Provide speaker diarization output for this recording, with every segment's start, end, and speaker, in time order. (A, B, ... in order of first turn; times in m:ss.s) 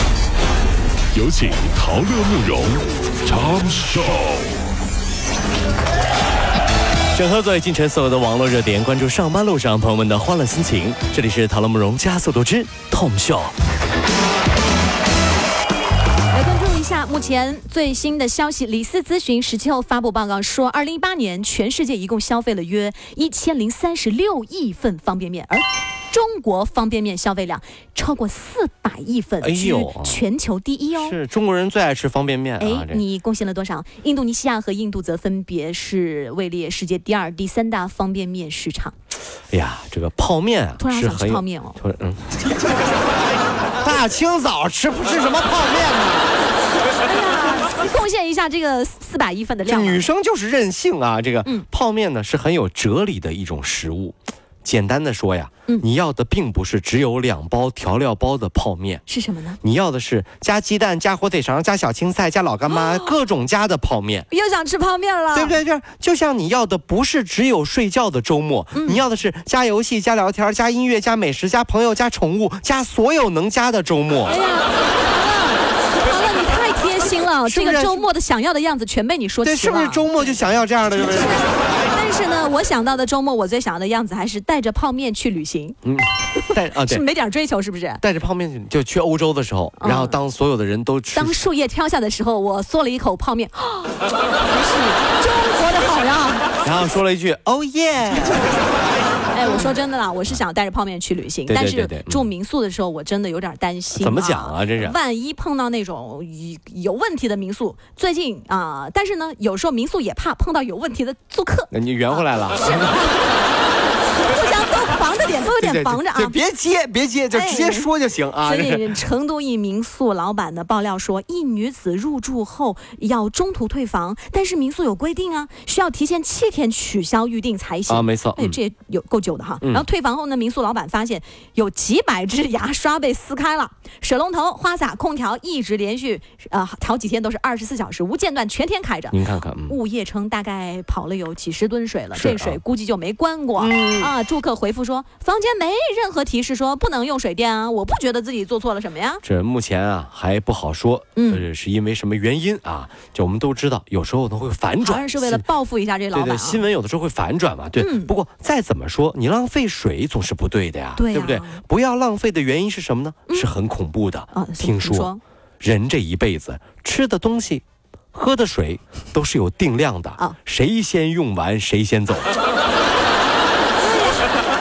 0:01.1-0:04.5 A
0:07.1-0:13.5 B
0:16.3-0:31.2 C
0:29.4-0:30.2 B
0:31.0-0:33.0 B
0:32.6-0:39.0 C
0:39.5-0:42.4 B
0:40.8-0:41.8 C
0:43.8-0:46.4 B
0:47.0-0:50.0 C
0:49.6-0:59.0 B
0:59.0-0:59.6 C
0:59.6-1:04.3 B
1:02.7-1:03.1 C
1:04.3-1:05.6 C
1:05.3-1:14.4 B
1:08.7-1:09.0 C
1:14.2-1:25.8 C
1:17.4-1:18.0 B
1:19.4-1:21.4 B
1:25.8-1:27.0 B
1:26.3-1:28.0 C
1:28.0-1:31.4 B
1:29.8-1:30.2 C
1:31.1-1:36.5 C
1:36.6-1:38.4 B
1:39.3-1:53.3 C
1:41.5-1:42.3 B
1:43.9-1:45.0 B
1:51.7-1:53.0 B
1:54.2-1:56.4 C
1:55.5-1:58.9 B
1:57.3-1:57.9 C
1:58.4-2:29.2 C
2:07.9-2:08.6 B
2:19.1-2:19.8 B
2:22.1-2:22.6 B
2:23.6-2:24.1 B
2:29.2-2:35.4 B
2:31.2-2:31.4 C
2:34.8-2:36.6 C
2:36.1-2:47.6 B
2:37.8-2:38.1 C
2:41.0-2:41.6 C
2:44.3-2:45.2 C
2:48.1-2:52.3 B
2:53.8-2:54.4 C